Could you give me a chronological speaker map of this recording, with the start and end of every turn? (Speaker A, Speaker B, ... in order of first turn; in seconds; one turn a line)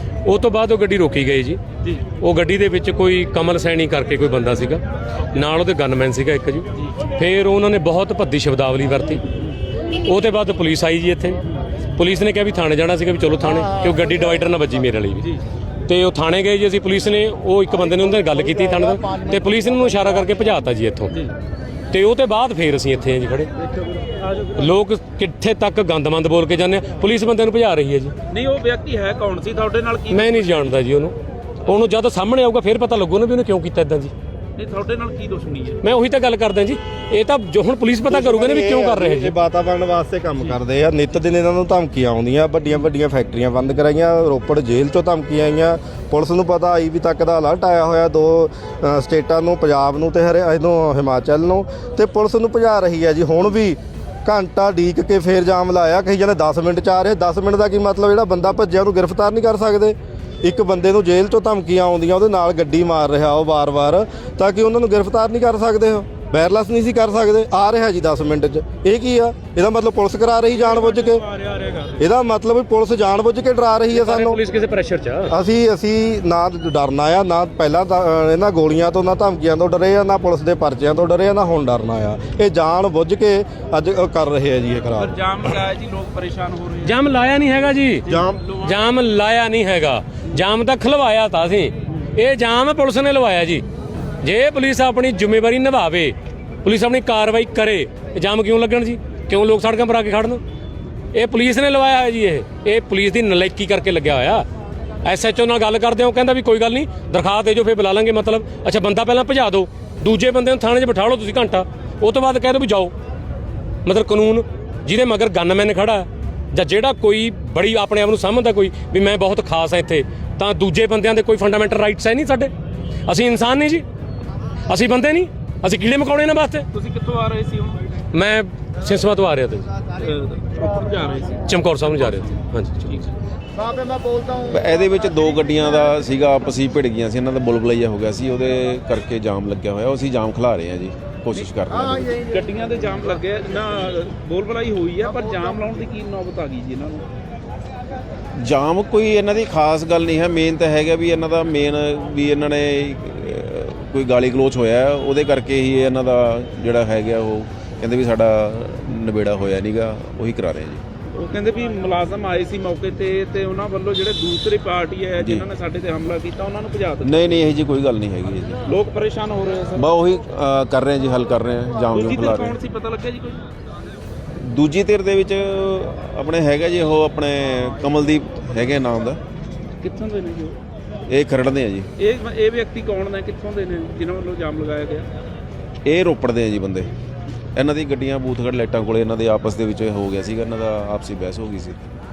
Speaker A: 0.2-1.6
Speaker A: 2.2-9.2
Speaker A: 9.9-11.4
Speaker A: 11.9-15.3
Speaker B: 14.1-14.4
Speaker A: 15.9-21.1
Speaker B: 18.2-20.1
Speaker A: 21.9-23.5
Speaker A: 24.5-28.1
Speaker C: 28.3-30.8
Speaker A: 30.1-34.1
Speaker C: 34.6-35.8
Speaker A: 35.8-39.3
Speaker D: 38.1-71.2
Speaker C: 70.5-72.1
Speaker D: 72.0-74.4
Speaker A: 73.9-75.3
Speaker D: 75.3-85.2
Speaker C: 85.0-87.1
Speaker A: 86.8-88.1
Speaker C: 88.1-88.8
Speaker E: 88.1-88.4
Speaker A: 88.6-93.6
Speaker A: 94.2-100.4
Speaker A: 101.1-104.5
Speaker A: 105.0-112.9
Speaker A: 113.8-122.5
Speaker A: 123.1-123.8
Speaker A: 124.7-126.7
Speaker C: 126.7-127.8
Speaker A: 128.1-129.7
Speaker C: 129.9-132.3
Speaker A: 131.4-132.9
Speaker C: 132.9-133.2
Speaker B: 133.5-135.3
Speaker E: 134.5-142.2
Speaker B: 141.7-142.5
Speaker C: 142.2-147.1
Speaker E: 148.3-160.8
Speaker C: 161.1-167.5
Speaker E: 165.2-165.5
Speaker E: 167.0-168.7
Speaker C: 168.7-169.9
Speaker E: 169.8-172.6
Speaker C: 171.9-173.4
Speaker E: 174.4-179.2
Speaker C: 179.8-180.6
Speaker E: 181.1-181.9
Speaker C: 182.0-185.1
Speaker E: 185.8-186.9
Speaker E: 187.5-191.8